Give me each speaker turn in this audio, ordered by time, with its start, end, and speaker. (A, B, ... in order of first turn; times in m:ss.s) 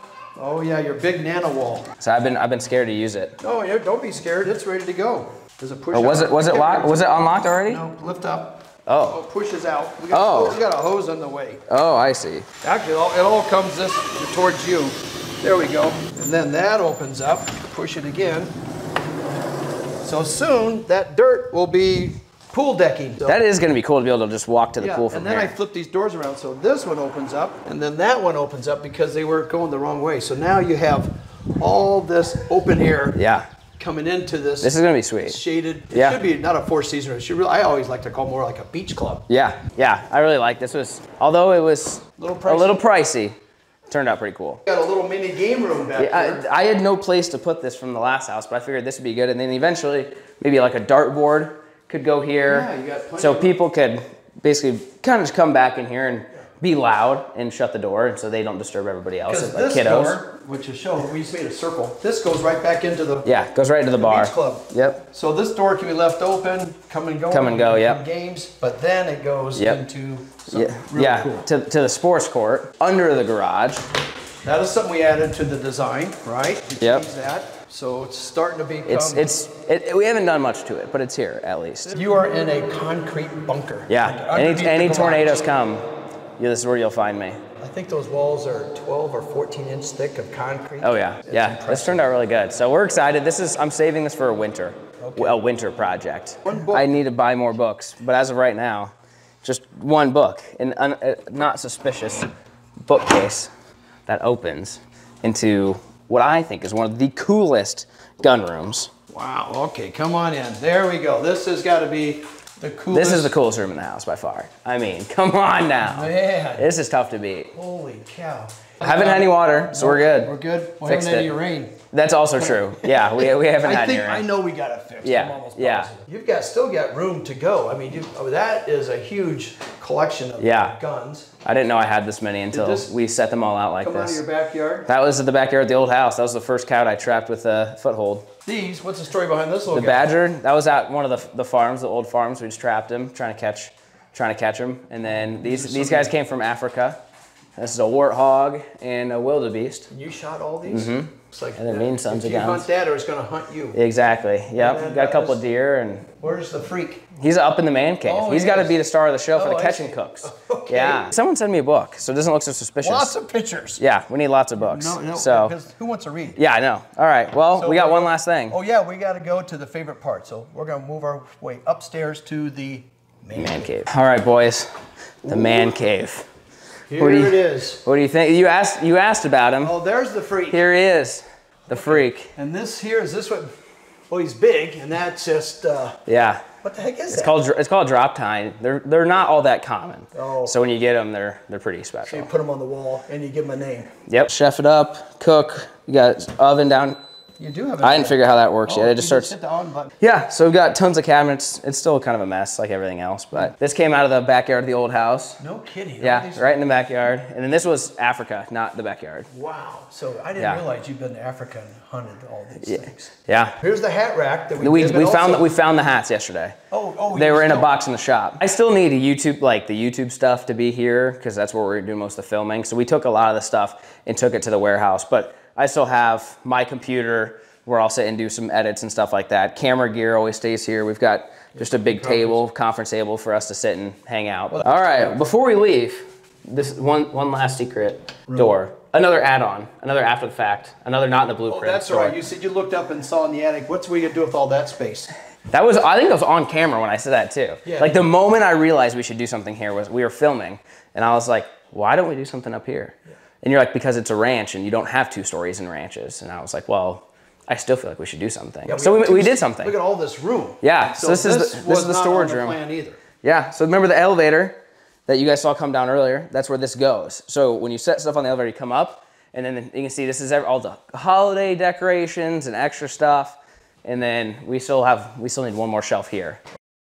0:00.4-0:01.9 A
0:02.0-0:03.4 B
0:03.4-0:11.6 A
0:05.9-0:07.8 B
0:08.9-0:09.2 B
0:10.1-0:10.6 B
0:11.7-0:12.5 B
0:12.6-0:18.5 A
0:20.0-0:23.4 A
0:23.3-0:25.5 B
0:24.8-0:33.2 A
0:33.2-0:33.5 B
0:33.8-0:39.2 A
0:34.6-0:35.4 B
0:35.9-0:36.2 B
0:39.3-0:43.4 B
0:42.2-0:42.8 A
0:43.9-0:44.6 B
0:44.7-0:46.4 A
0:46.0-0:52.7 B
0:52.5-0:53.5 A
0:53.2-1:00.2 B
0:59.3-1:03.3 A
1:03.2-1:05.0 B
1:04.0-1:11.4 A
1:07.3-1:08.0 B
1:09.6-1:09.8 B
1:10.5-1:13.8 B
1:14.4-1:19.3 A
1:16.8-1:17.0 B
1:18.9-1:22.0 B
1:21.8-1:25.4 A
1:23.9-1:25.8 B
1:26.4-1:27.4 B
1:27.6-1:32.1 A
1:30.8-1:38.9 B
1:35.0-1:35.4 A
1:36.5-1:36.9 A
1:39.4-1:42.3 B
1:42.9-1:43.5 B
1:44.1-1:48.9 B
1:49.1-1:53.3 A
1:52.9-1:57.5 B
1:55.8-1:56.7 A
1:57.5-2:01.8 A
1:58.8-2:00.3 B
2:00.8-2:01.3 B
2:01.9-2:04.2 B
2:02.4-2:11.3 A
2:05.0-2:05.9 B
2:10.4-2:10.8 B
2:11.4-2:14.2 B
2:12.5-2:12.9 A
2:13.8-2:14.9 A
2:14.9-2:18.3 B
2:18.5-2:20.0 A
2:19.7-2:27.0 B
2:25.0-2:26.1 A
2:27.6-2:29.9 B
2:29.9-2:33.8 A
2:30.7-2:32.7 B
2:33.7-2:36.1 B
2:34.6-2:35.4 A
2:36.2-2:37.1 A
2:37.2-2:43.1 B
2:38.0-2:38.8 A
2:39.3-2:41.1 A
2:42.8-2:43.8 A
2:43.8-2:45.5 B
2:44.6-2:46.4 A
2:46.4-2:48.6 B
2:47.6-2:53.8 A
2:53.4-2:54.7 B
2:55.2-2:55.7 A
2:55.3-2:56.3 B
2:56.9-2:57.8 A
2:57.0-2:59.7 B
2:59.6-3:00.6 A
3:00.5-3:02.3 B
3:01.7-3:03.5 A
3:04.1-3:06.0 A
3:06.1-3:06.4 B
3:06.6-3:07.3 A
3:07.1-3:12.3 B
3:10.1-3:10.6 A
3:12.1-3:13.9 A
3:14.1-3:17.0 B
3:17.4-3:19.9 A
3:17.8-3:19.3 B
3:20.0-3:25.4 B
3:25.4-3:26.5 A
3:26.0-3:29.3 B
3:29.3-3:35.5 A
3:32.6-3:33.6 B
3:34.6-3:36.6 B
3:36.7-3:37.7 A
3:37.1-4:02.2 B
3:51.6-3:52.4 A
3:58.3-3:58.6 A
4:01.5-4:05.1 A
4:05.5-4:19.8 B
4:07.6-4:08.0 A
4:18.7-4:23.0 A
4:20.6-4:22.6 B
4:23.2-4:36.4 B